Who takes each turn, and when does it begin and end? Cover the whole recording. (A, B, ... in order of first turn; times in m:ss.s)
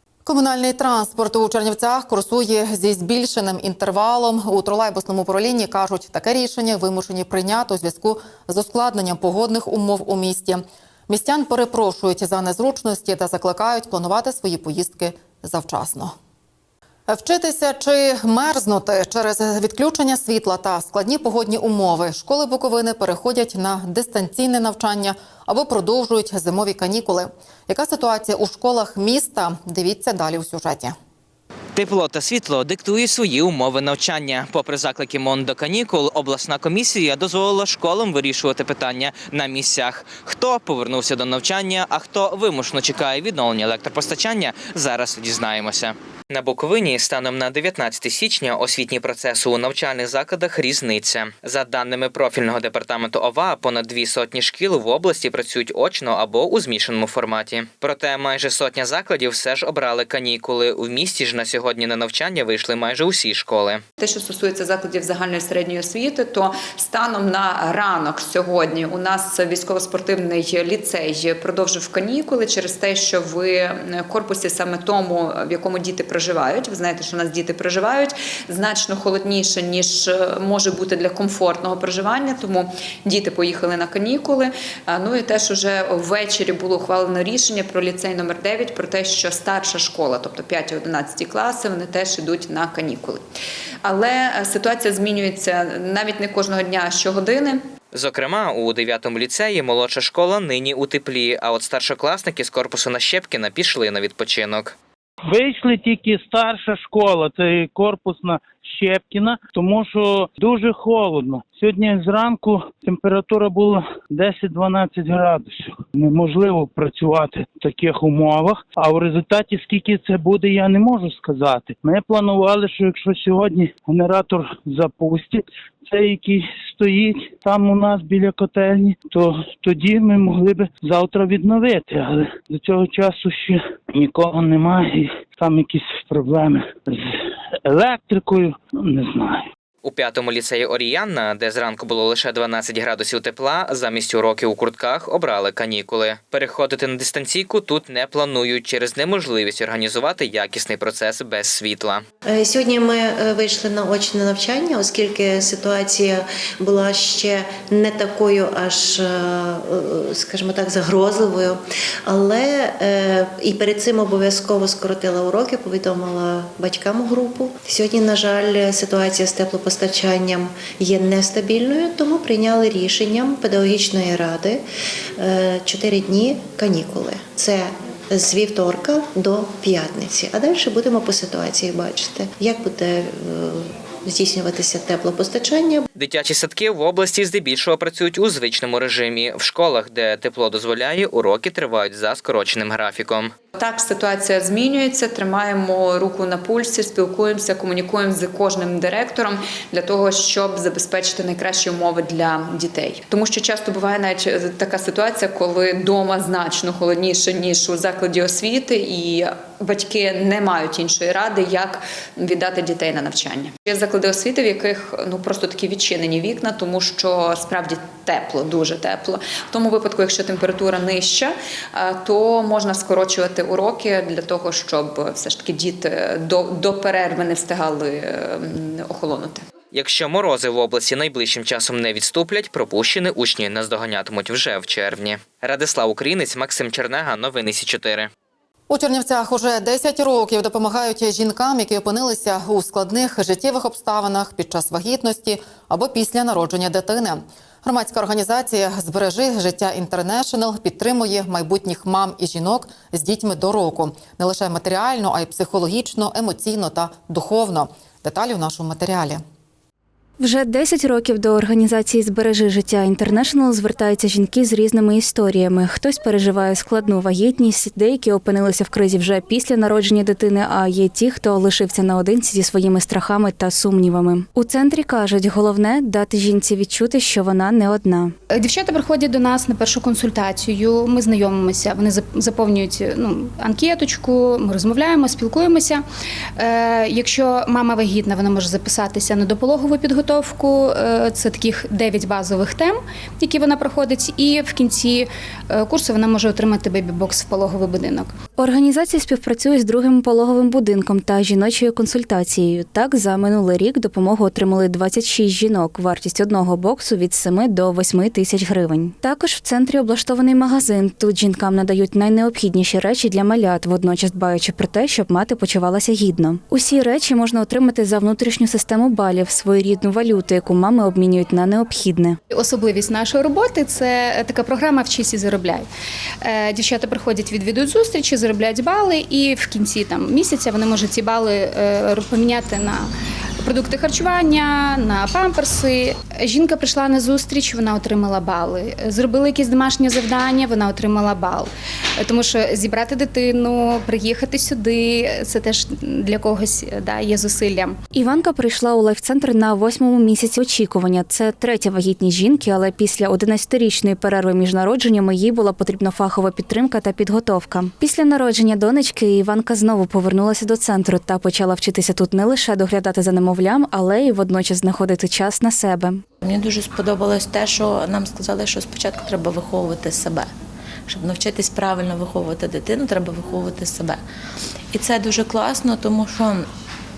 0:00.2-0:16.1 A
0:17.1-0:30.9 A
0:31.7-1:03.8 B
1:04.0-1:33.2 C
1:33.8-1:37.6 C
1:37.9-1:44.8 B
1:45.3-2:17.0 D
2:17.6-2:19.5 D
2:19.8-2:32.0 B
2:32.2-2:54.6 E
2:55.2-3:05.9 E
3:06.0-3:13.3 B
3:13.6-3:49.4 C
3:49.7-3:58.1 B
3:58.7-4:19.2 A
4:20.2-4:38.1 F
4:38.3-4:45.8 G
4:46.4-4:58.2 G
4:58.4-5:22.2 F
5:22.3-5:25.6 G
5:26.2-5:32.9 G
5:33.4-5:47.8 G
5:47.9-6:06.0 F
6:06.2-6:10.3 H
6:10.9-6:14.0 H
6:14.7-6:16.5 H